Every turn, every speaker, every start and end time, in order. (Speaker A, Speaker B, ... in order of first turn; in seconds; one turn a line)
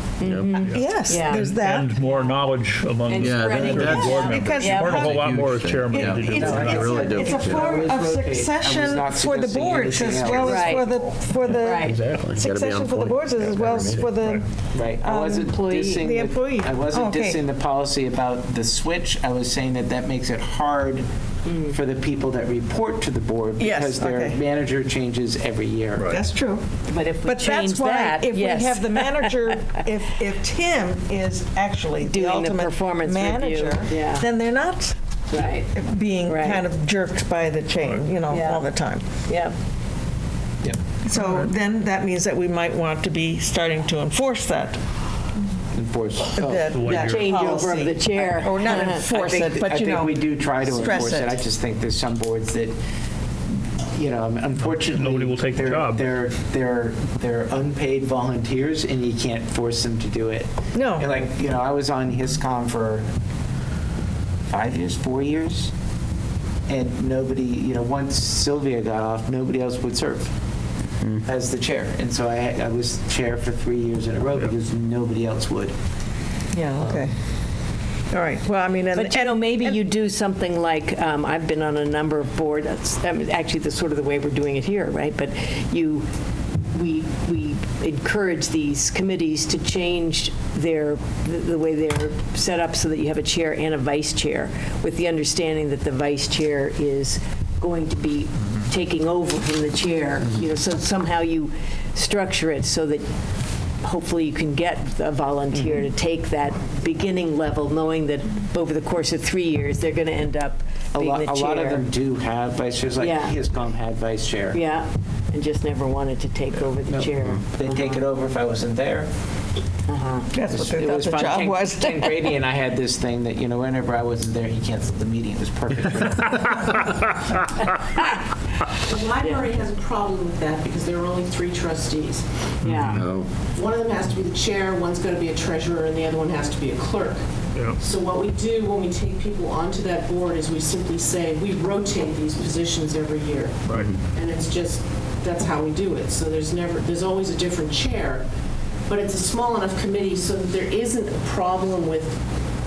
Speaker A: 0.2-1.5
Speaker B: 0.2-0.6
Speaker C: 0.6-7.0
Speaker D: 0.7-2.0
Speaker A: 2.1-2.3
Speaker A: 3.0-5.1
Speaker B: 3.2-4.1
Speaker D: 3.7-5.3
Speaker B: 5.0-7.8
Speaker D: 5.9-14.4
Speaker E: 6.4-11.1
Speaker A: 10.4-10.9
Speaker A: 11.5-12.0
Speaker B: 11.8-14.1
Speaker E: 14.7-21.1
Speaker D: 15.0-17.4
Speaker A: 15.4-16.0
Speaker A: 21.4-21.8
Speaker E: 21.7-26.1
Speaker D: 23.6-24.4
Speaker D: 26.1-26.6
Speaker A: 26.9-29.3
Speaker D: 27.2-39.0
Speaker A: 32.0-34.3
Speaker A: 35.3-35.7
Speaker A: 36.2-36.6
Speaker A: 38.3-38.7
Speaker A: 39.3-39.5
Speaker D: 41.0-44.8
Speaker E: 45.7-46.8
Speaker D: 46.3-51.4
Speaker C: 46.7-47.3
Speaker A: 46.9-49.0
Speaker E: 48.6-52.8
Speaker E: 53.9-63.1
Speaker C: 54.6-56.1
Speaker D: 60.7-61.1
Speaker E: 64.5-65.7
Speaker E: 66.7-70.3
Speaker E: 71.2-75.7
Speaker D: 76.5-77.1
Speaker D: 78.1-79.8
Speaker A: 78.9-86.1
Speaker A: 86.7-103.1
Speaker A: 103.8-111.9
Speaker E: 105.5-105.8
Speaker E: 110.9-114.6
Speaker A: 113.0-113.4
Speaker A: 114.5-118.0
Speaker E: 116.8-119.1
Speaker A: 119.9-120.3
Speaker D: 120.3-122.2
Speaker E: 120.5-126.8
Speaker F: 128.9-132.2
Speaker A: 129.2-129.5
Speaker C: 132.6-133.0
Speaker A: 132.6-133.0
Speaker B: 132.9-133.3
Speaker F: 133.4-137.2
Speaker F: 137.8-148.2
Speaker C: 143.7-144.0
Speaker B: 143.7-144.0
Speaker F: 148.9-152.2